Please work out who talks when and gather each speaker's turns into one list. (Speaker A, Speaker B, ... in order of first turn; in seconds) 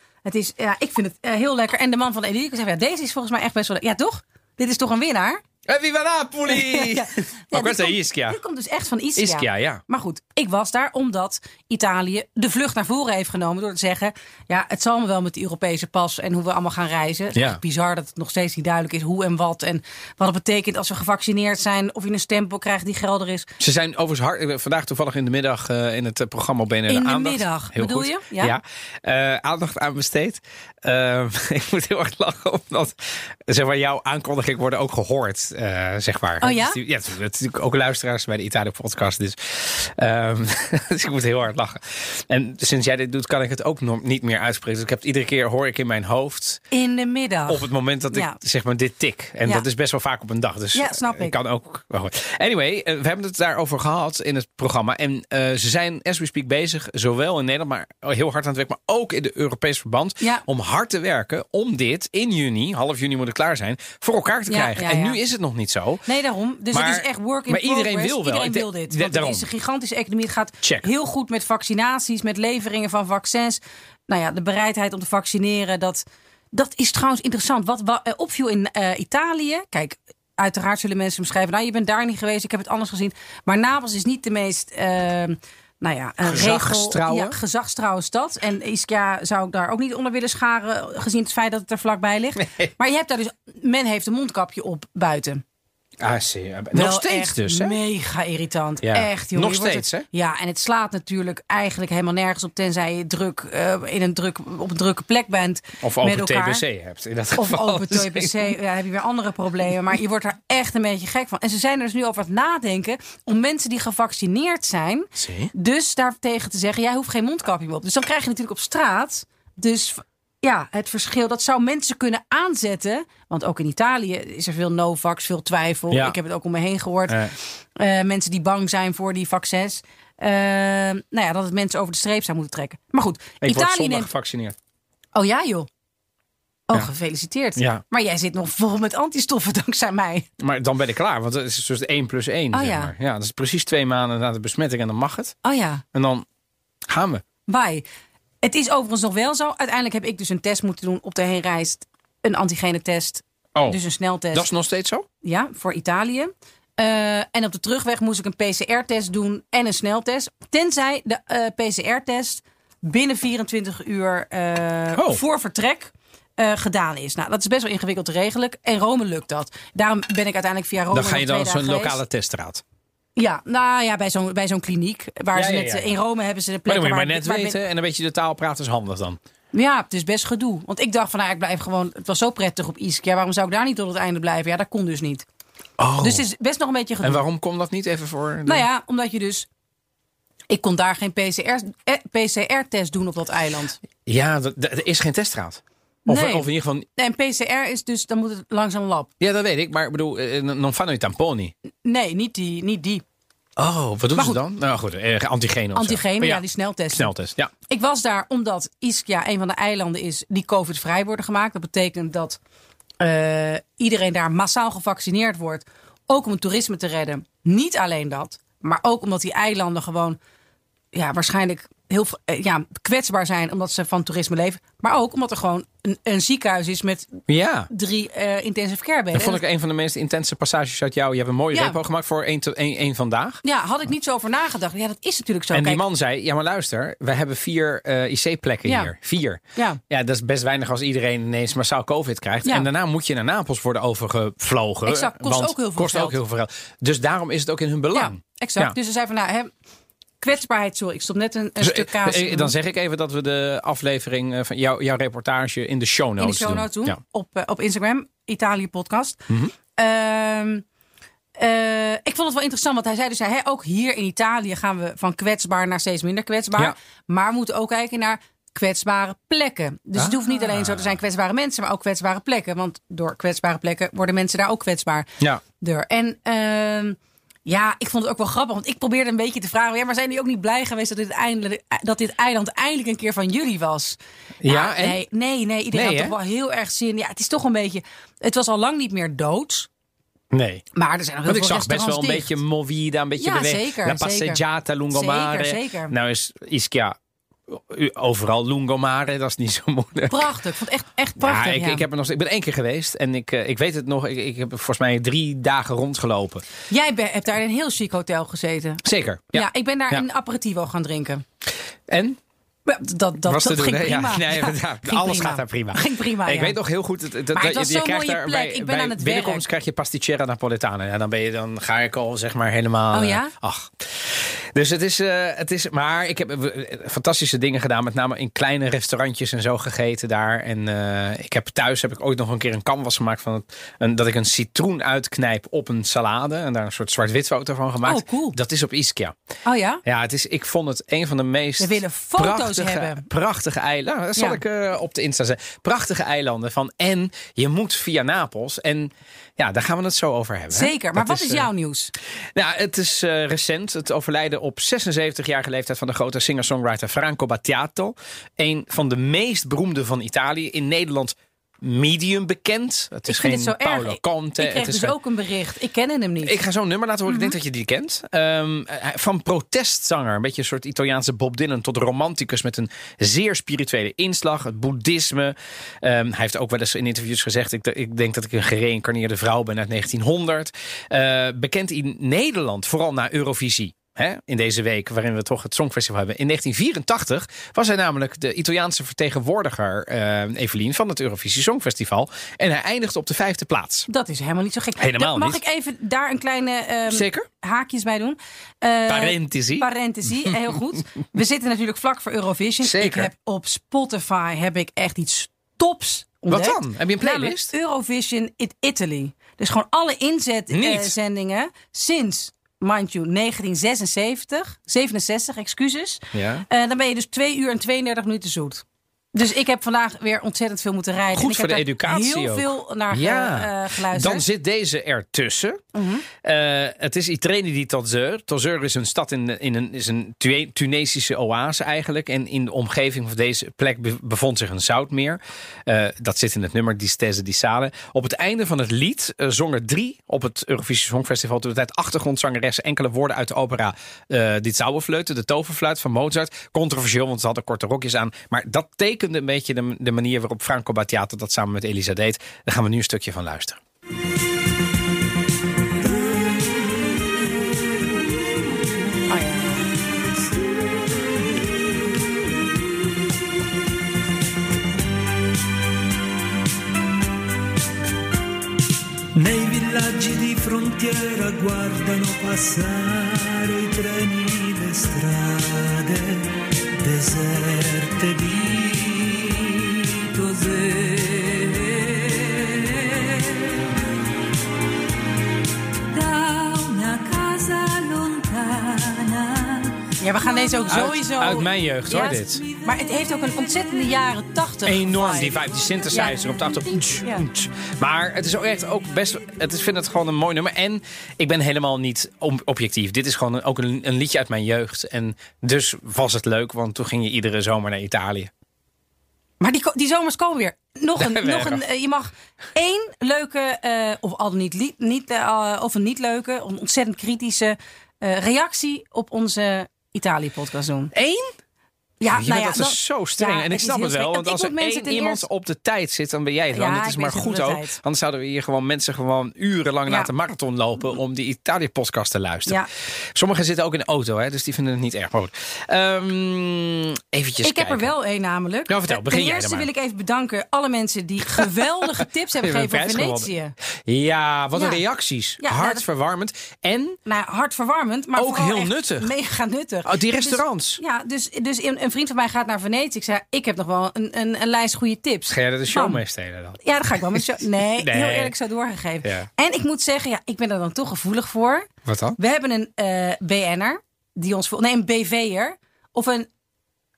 Speaker A: 0.2-5.4, 6.5-23.5, 26.9-28.6, 36.4-36.8, 46.7-48.4, 50.7-51.4, 64.5-65.2, 66.1-95.4, 96.7-106.6, 107.4-134.1, 135.2-135.7, 136.7-140.3, 142.5-142.9, 145.4-145.8, 147.5-147.8, 148.4-154.5, 155.2-172.0, 173.2-177.6, 179.5-185.3, 186.0-187.2, 188.5-189.5, 190.5-193.8, 196.1-199.1, 201.8-203.0, 204.2-204.4, 205.8-207.1, 207.7-212.4, 213.0-220.2, 220.9-227.2, 227.7-229.4, 231.5-231.8, 233.4-235.8, 238.7-238.9, 239.6-239.8, 244.9-246.2, 247.9-249.5, 250.2-252.5, 256.2-259.2, 259.8-260.6, 261.4-275.1, 275.6-289.7, 290.8-292.3, 293.2-294.4, 294.9-295.9, 300.1-301.9, 306.7-308.8, 309.3-311.2, 312.7-316.6, 317.3-319.4, 322.9-323.3, 337.8-338.4, 339.5-339.8, 341.6-343.1, 350.5-351.9, 363.1-366.4, 367.1-367.4, 393.9-424.3, 425.7-426.1, 459.1-459.7, 490.0-496.2, 496.8-497.2, 509.4-520.9, 522.0-525.3, 526.5-527.8, 537.4-543.5, 544.5-544.8, 545.4-545.9, 547.1-556.0, 556.6-566.3
Speaker B: 5.7-8.4, 9.2-9.8, 17.4-17.6, 23.6-46.7, 47.5-66.0, 66.7-69.5, 70.6-70.9, 86.2-87.4, 96.0-97.8, 98.8-100.0, 105.8-108.5, 115.2-115.5, 125.9-126.2, 127.1-127.3, 133.4-134.6, 137.6-137.8, 140.4-145.4, 145.9-146.3, 146.9-147.2, 154.3-155.1, 164.9-165.2, 170.9-172.6, 175.3-175.9, 176.7-179.2, 185.8-186.2, 187.0-188.7, 194.1-196.9, 199.2-201.5, 203.6-207.5, 227.3-227.7, 229.1-233.4, 235.5-248.7, 251.6-257.0, 270.0-270.9, 284.4-285.0, 285.7-286.1, 290.3-290.6, 291.3-297.0, 297.5-300.3, 301.2-306.4, 308.8-310.1, 311.9-312.2, 313.3-339.1, 339.9-351.5, 352.4-364.9, 366.2-393.9, 394.8-395.4, 396.9-397.3, 398.9-400.4, 402.6-403.1, 406.3-407.5, 410.5-410.9, 416.1-416.4, 421.1-425.6, 426.2-453.6, 490.7-492.4, 494.7-508.3, 511.0-511.6, 520.9-521.3, 522.1-532.6, 533.1-537.9, 538.7-539.7, 541.3-543.3, 543.9-547.0, 548.2-549.1, 549.9-550.8, 555.3-557.2, 557.8-558.3, 559.0-559.3, 561.9-562.2
Speaker C: 455.9-458.0, 460.4-462.2, 469.1-483.6, 485.9-489.9